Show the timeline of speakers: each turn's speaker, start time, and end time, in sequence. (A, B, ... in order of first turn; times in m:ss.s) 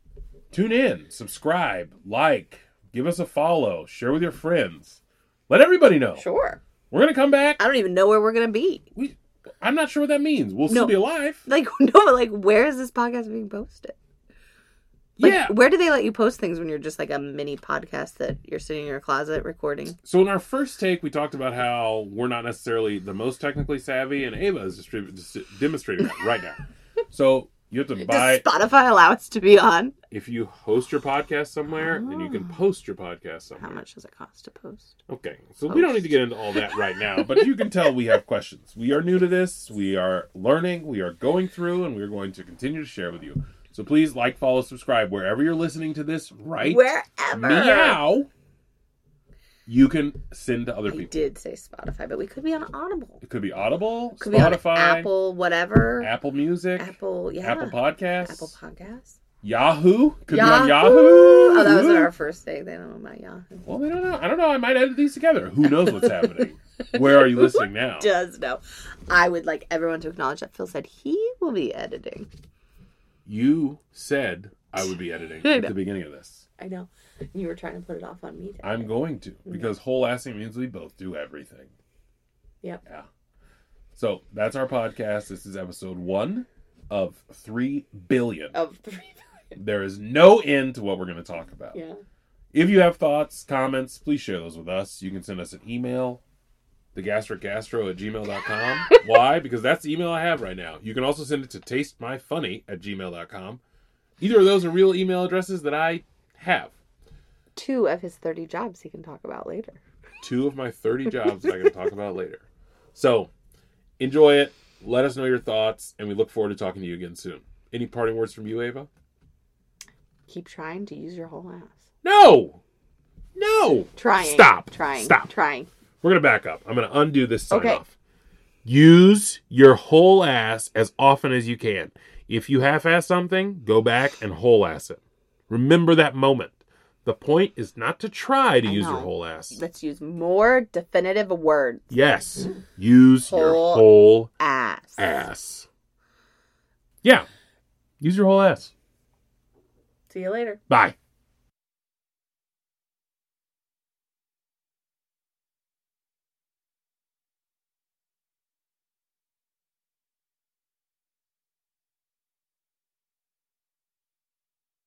0:00.5-0:06.2 A
0:06.2-0:06.6 B
0:06.9-0:07.6 A
0:07.6-0:08.8 B
0:08.9-0:11.4 A
0:10.7-0:14.0 B
0:15.2-0:20.0 B
0:15.2-0:15.6 A
0:20.0-0:26.6 A
0:27.1-0:28.5 A
0:28.0-0:29.9 B
0:30.1-0:33.8 A
0:31.8-0:32.6 B
0:33.6-0:35.0 B
0:35.1-0:48.3 A
0:35.7-0:37.6 B
0:46.6-0:48.0 B
0:49.6-0:51.1 A
0:50.9-0:53.2 B
0:53.2-0:55.1 A
0:54.2-0:56.1 B
0:56.0-0:58.6 A
0:56.8-0:59.2 B
0:59.4-1:02.1 A
1:00.3-1:03.6 B
1:03.6-1:08.1 A
1:05.8-1:12.3 B
1:13.3-1:16.4 A
1:15.4-1:15.7 B
1:16.6-1:18.9 B
1:18.6-1:21.7 A
1:23.9-1:28.6 A
1:28.5-1:29.6 B
1:29.6-1:31.8 A
1:32.5-1:36.2 A
1:36.9-1:43.6 A
1:44.2-1:46.7 A
1:47.6-1:49.8 B
1:50.2-1:53.3 A
1:54.0-1:58.9 A
2:00.3-2:01.8 B
2:02.0-2:02.6 A
2:03.4-2:05.3 A
2:04.0-2:05.7 B
2:06.0-2:07.9 A
2:07.5-2:07.8 B
2:08.6-2:19.6 A
2:18.6-2:21.9 B
2:21.9-2:24.3 A
2:23.2-2:25.2 B
2:25.0-2:25.7 A
2:28.0-2:28.7 A
2:30.1-2:30.6 B
2:30.7-2:31.0 A